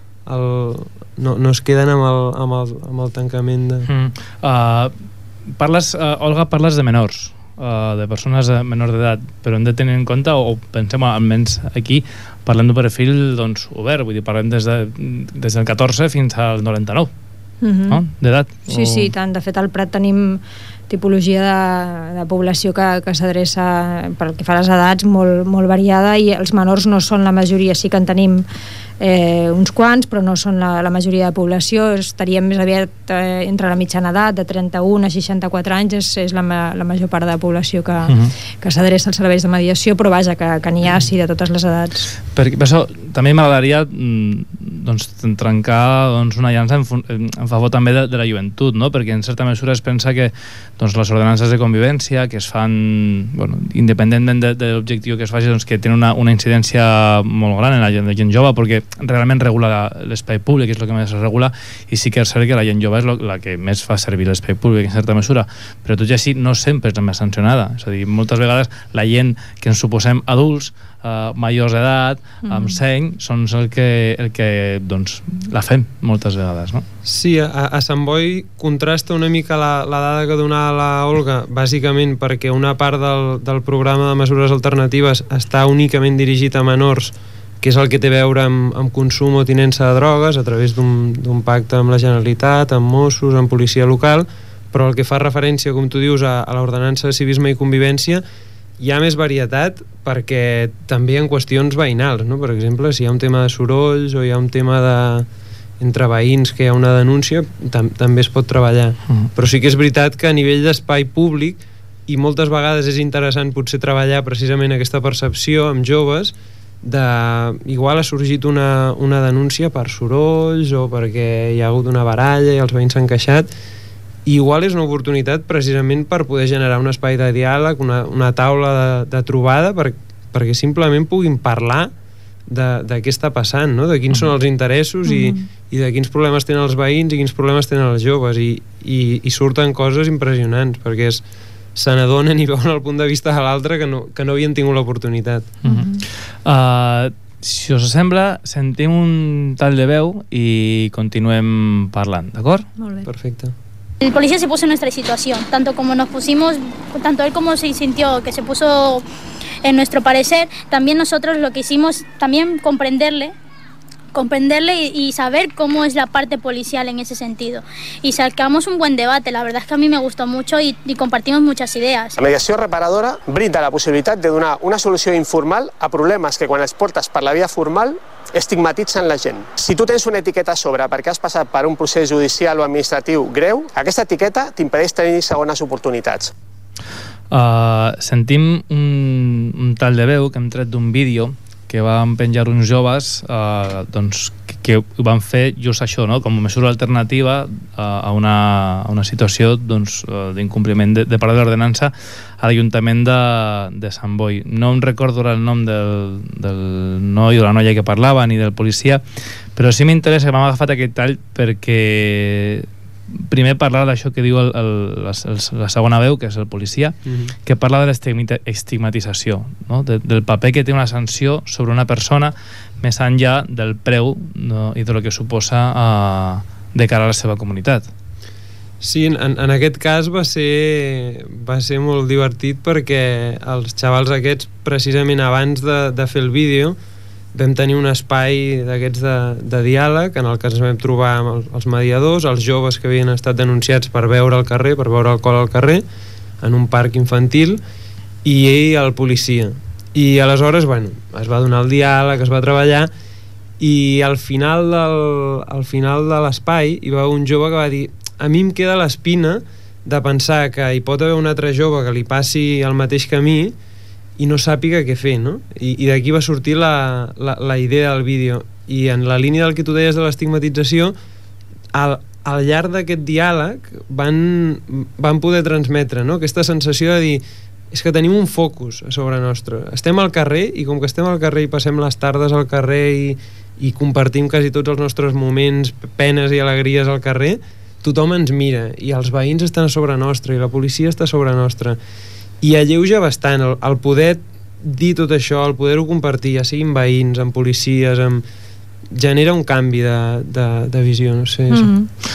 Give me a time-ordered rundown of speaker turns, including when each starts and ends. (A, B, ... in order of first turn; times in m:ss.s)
0:00.3-0:03.9 A
0:03.9-0:04.9 B
0:05.6-0:17.1 B
0:17.6-0:18.0 C
0:17.9-0:19.1 B
0:18.7-0:28.4 C
0:29.0-0:42.1 C
0:38.1-0:38.3 B
0:42.4-1:16.8 B
1:12.5-1:12.8 C
1:17.0-1:38.2 A
1:38.8-1:45.3 A
1:45.8-2:03.5 A
2:04.2-2:11.9 A
2:12.5-2:21.2 A
2:15.0-2:15.4 C
2:21.7-2:25.5 A
2:25.6-2:32.7 B
2:25.6-2:26.0 C
2:32.8-2:33.1 C
2:33.0-2:33.5 A
2:34.0-2:39.0 D
2:39.6-2:43.3 D
2:44.1-2:52.2 D
2:52.2-3:06.3 E
3:07.3-3:29.0 B
3:29.6-3:47.9 B
3:37.0-3:37.3 A
3:48.8-3:56.8 A
3:57.3-4:05.8 A
4:06.4-4:07.6 A
4:08.2-4:12.9 A
4:13.6-4:23.5 A
4:24.2-4:31.0 A
4:31.7-4:51.8 A
4:52.4-4:58.2 A
4:58.9-5:01.7 A
5:01.5-5:01.9 C